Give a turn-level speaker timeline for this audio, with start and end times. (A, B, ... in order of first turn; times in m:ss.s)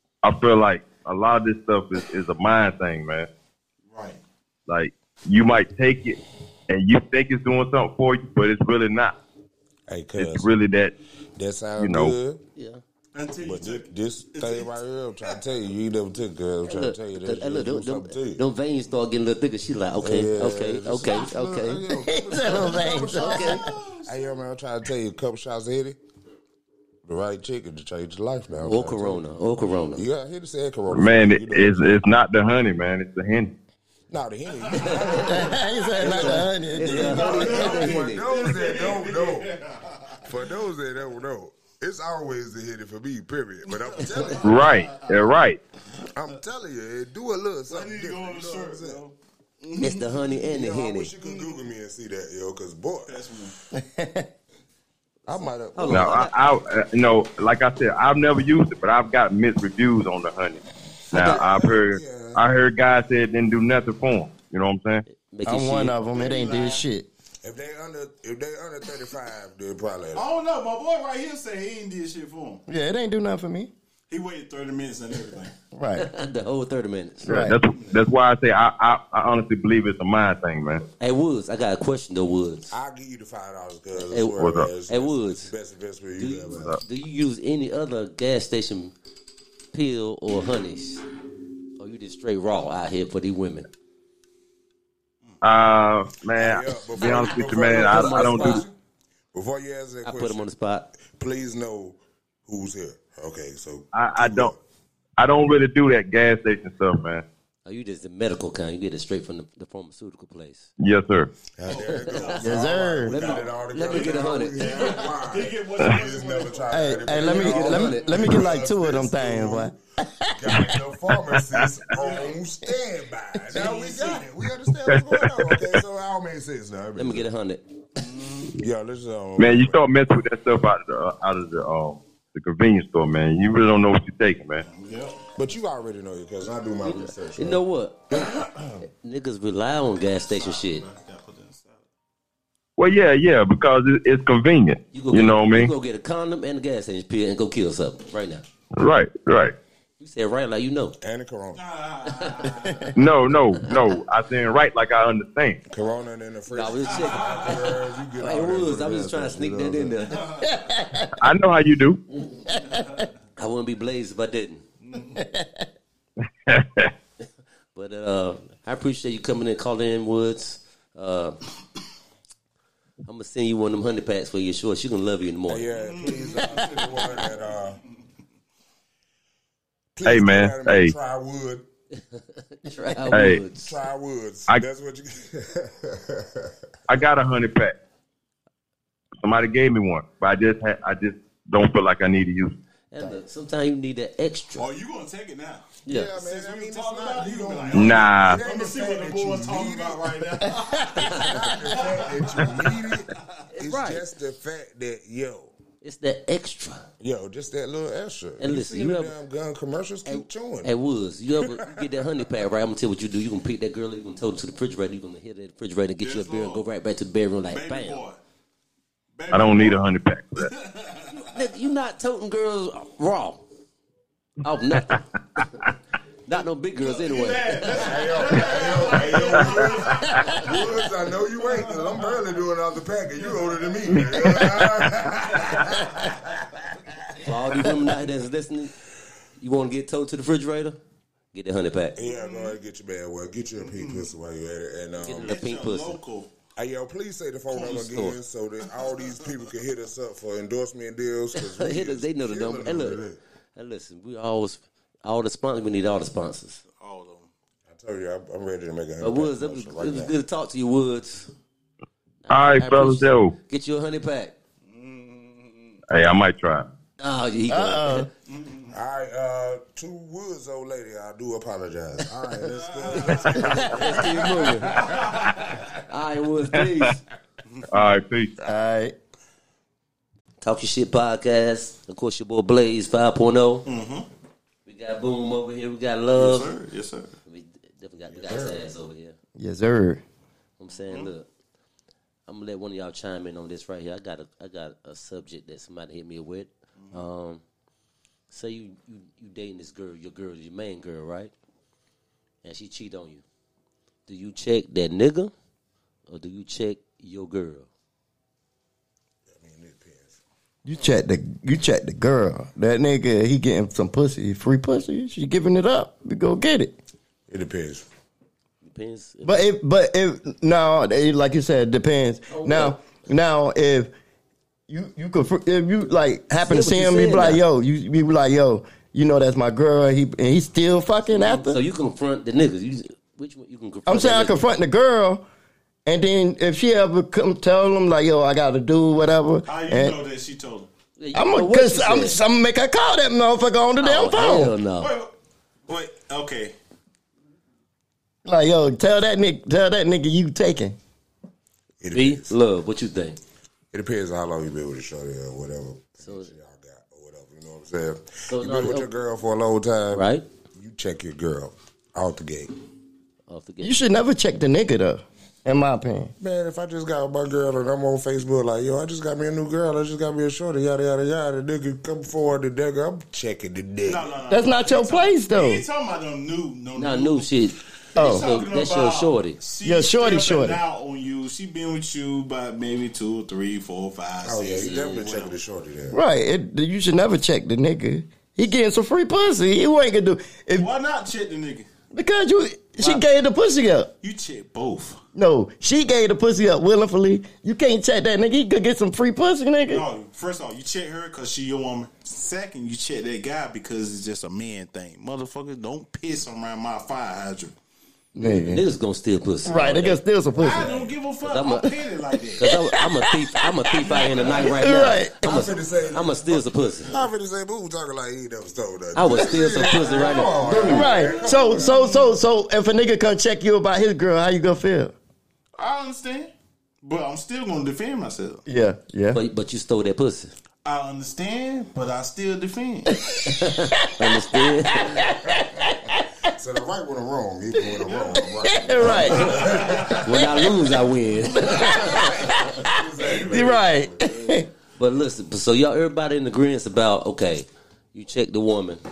0:00.2-0:03.3 A
0:03.9-0:04.2 B
0:04.7-0:09.2 A
0:09.9-0:10.5 C
0:10.2-0:10.9 A
0:11.4-0:12.4 C
0:11.8-0:12.2 A
0:12.6-0:12.8 D
0:13.1-0:15.4 B
0:13.4-0:18.4 C
0:16.7-0:21.8 D
0:20.0-0:26.0 C
0:21.9-0:23.6 E
0:22.4-0:23.6 D
0:23.2-0:24.3 B
0:27.1-0:29.2 C
0:28.6-0:30.0 D
0:30.0-0:32.0 C
0:30.9-0:33.5 A
0:34.1-0:39.5 C
0:34.7-0:40.2 B
0:35.2-0:37.5 E
0:36.0-0:38.3 D
0:40.2-0:44.8 C
0:43.6-0:45.3 B
0:44.4-0:45.6 A
0:46.1-0:49.0 C
0:47.7-0:50.4 B
0:49.8-0:51.1 D
0:50.4-0:53.2 C
0:51.2-0:51.6 B
0:53.1-0:53.6 B
0:53.7-0:54.3 E
0:55.3-0:56.2 C
0:55.8-0:56.4 D
0:55.9-1:05.0 A
1:01.1-1:01.4 D
1:01.2-1:02.4 C
1:05.1-1:06.0 D
1:05.4-1:07.1 E
1:06.1-1:06.8 B
1:07.4-1:10.3 C
1:10.1-1:12.6 B
1:12.7-1:13.7 E
1:14.1-1:15.5 B
1:15.7-1:16.1 E
1:16.0-1:17.5 D
1:17.2-1:17.6 E
1:17.3-1:20.8 A
1:21.0-1:22.8 D
1:22.7-1:26.8 C
1:24.0-1:25.5 D
1:24.4-1:24.7 A
1:26.2-1:28.9 D
1:26.5-1:26.8 A
1:29.7-1:31.0 D
1:31.8-1:33.7 D
1:35.4-1:38.6 A
1:36.4-1:38.8 C
1:37.0-1:38.6 D
1:39.3-1:44.6 C
1:40.0-1:40.9 D
1:43.9-1:44.5 A
1:45.2-1:47.2 A
1:47.6-1:50.7 D
1:50.8-1:51.3 A
1:51.5-1:59.8 C
1:51.7-1:58.3 B
1:51.8-1:52.4 D
1:52.4-1:53.2 E
1:53.1-1:55.1 D
1:56.7-2:00.8 E
1:57.2-1:58.2 D
2:00.4-2:07.3 C
2:01.9-2:02.4 B
2:03.5-2:04.3 B
2:04.9-2:05.7 A
2:07.0-2:07.6 D
2:08.0-2:08.5 B
2:08.5-2:09.8 C
2:09.4-2:14.6 A
2:14.6-2:15.2 B
2:15.4-2:18.8 C
2:16.8-2:20.8 D
2:20.3-2:21.9 B
2:22.8-2:25.7 A
2:24.9-2:28.4 D
2:28.8-2:29.5 A
2:30.0-2:31.0 D
2:31.0-2:31.6 C
2:31.6-2:32.9 B
2:32.1-2:32.7 D
2:33.0-2:35.6 A
2:35.7-2:40.0 C
2:36.5-2:40.3 D
2:36.9-2:37.8 B
2:40.1-2:40.6 B
2:40.3-2:41.3 E
2:41.2-2:42.0 A
2:42.4-2:43.1 E
2:42.7-2:43.0 B
2:43.4-2:44.6 D
2:44.9-2:45.2 B
2:45.0-2:45.7 E
2:46.5-2:46.9 A
2:47.8-2:51.4 D
2:53.0-2:55.7 D
2:55.5-2:57.8 C
2:55.7-2:57.6 B
3:00.0-3:01.7 C
3:00.0-3:01.0 A
3:02.1-3:03.8 D
3:03.1-3:03.4 A
3:03.5-3:06.5 C
3:06.9-3:07.7 A
3:09.2-3:12.5 A
3:12.9-3:14.7 D
3:14.6-3:23.3 B
3:15.8-3:16.1 D
3:15.9-3:20.3 C
3:17.7-3:18.4 A
3:20.5-3:21.0 E
3:20.9-3:25.5 C
3:23.5-3:24.0 D
3:25.8-3:26.9 D
3:27.0-3:30.7 C
3:28.4-3:29.1 D
3:30.0-3:38.0 D
3:31.4-3:31.9 C
3:36.0-3:36.7 B
3:37.5-3:38.2 B
3:39.2-3:39.8 B
3:39.3-3:40.5 A
3:40.4-3:41.2 B
3:41.1-3:43.4 D
3:44.4-3:45.6 D
3:46.2-3:48.0 D
3:46.8-3:52.2 B
3:47.7-3:56.6 C
3:53.2-3:54.4 B
3:55.3-3:55.9 B
3:57.1-3:57.8 C
3:57.2-3:58.7 D
3:59.4-4:00.8 D
4:01.3-4:02.0 D
4:02.0-4:05.4 C
4:02.0-4:02.6 B
4:03.6-4:04.1 B
4:05.0-4:06.0 D
4:05.2-4:06.3 B
4:06.6-4:13.2 C
4:07.6-4:07.8 B
4:07.6-4:08.2 D
4:11.4-4:13.0 D
4:13.6-4:16.6 D
4:16.8-4:17.3 B
4:17.7-4:20.1 C
4:19.0-4:21.3 D
4:22.2-4:24.4 D
4:22.3-4:23.3 A
4:24.7-4:25.8 B
4:25.9-4:26.7 A
4:27.0-4:28.1 D
4:27.5-4:28.1 E
4:28.3-4:28.7 B
4:28.7-4:35.0 C
4:32.5-4:33.8 B
4:33.4-4:34.8 D
4:34.6-4:35.6 B
4:35.9-4:37.0 D
4:37.7-4:38.3 A
4:38.4-4:39.0 E
4:40.4-4:43.7 D
4:43.7-4:44.1 B
4:44.7-4:46.5 D
4:46.2-4:47.2 B
4:47.3-4:49.2 D
4:48.1-4:48.7 C
4:49.4-4:50.0 E
4:50.6-4:51.3 D
4:52.3-4:57.4 D
4:58.3-5:01.3 D
5:02.4-5:03.2 D
5:04.1-5:05.3 D
5:06.1-5:07.7 D
5:09.3-5:10.2 C
5:10.6-5:16.8 E
5:17.3-5:17.8 C
5:18.6-5:19.4 D
5:19.2-5:23.9 E
5:22.3-5:22.8 D
5:24.7-5:31.6 E
5:26.4-5:27.4 D
5:31.1-5:34.4 D
5:33.9-5:35.2 E
5:35.9-5:40.0 E
5:39.5-5:40.7 B
5:41.0-5:42.2 D
5:41.1-5:44.6 E
5:43.8-5:44.9 D
5:44.8-5:45.1 B
5:45.7-5:46.6 B
5:48.2-5:50.8 E
5:51.8-5:52.4 C
5:51.9-5:53.2 D
5:53.7-6:02.5 C
5:56.0-5:56.3 D
5:58.3-5:58.9 D
5:59.9-6:00.2 D
6:03.3-6:03.8 D
6:03.6-6:06.1 E
6:06.2-6:14.2 C
6:13.8-6:17.3 B
6:14.3-6:15.6 E
6:16.8-6:19.4 D
6:17.9-6:25.4 B
6:18.0-6:18.3 E
6:19.6-6:20.6 E
6:24.2-6:26.0 C
6:24.6-6:25.1 D
6:25.9-6:30.7 E
6:30.6-6:31.7 B
6:31.9-6:33.9 E
6:34.0-6:35.0 B
6:35.2-6:39.9 E
6:39.7-6:47.5 B
6:48.2-6:48.6 E
6:48.2-6:50.0 D
6:49.4-6:50.7 E
6:50.4-6:52.5 B
6:51.2-6:51.7 D
6:52.4-6:56.9 D
6:52.4-6:53.8 E
6:53.7-6:54.6 B
6:54.4-6:55.2 E
6:55.2-7:01.8 C
6:58.9-7:00.9 D
6:59.8-7:02.1 B
7:00.4-7:04.9 E
7:05.6-7:08.4 B
7:08.5-7:09.2 E
7:09.1-7:10.3 D
7:10.6-7:13.0 B
7:13.1-7:16.1 E
7:13.2-7:15.0 D
7:16.3-7:20.5 C
7:18.4-7:20.0 E
7:18.8-7:20.0 B
7:19.9-7:22.4 D
7:21.4-7:24.5 E
7:21.5-7:22.1 B
7:21.7-7:24.1 C
7:23.0-7:23.5 B
7:24.8-7:28.8 D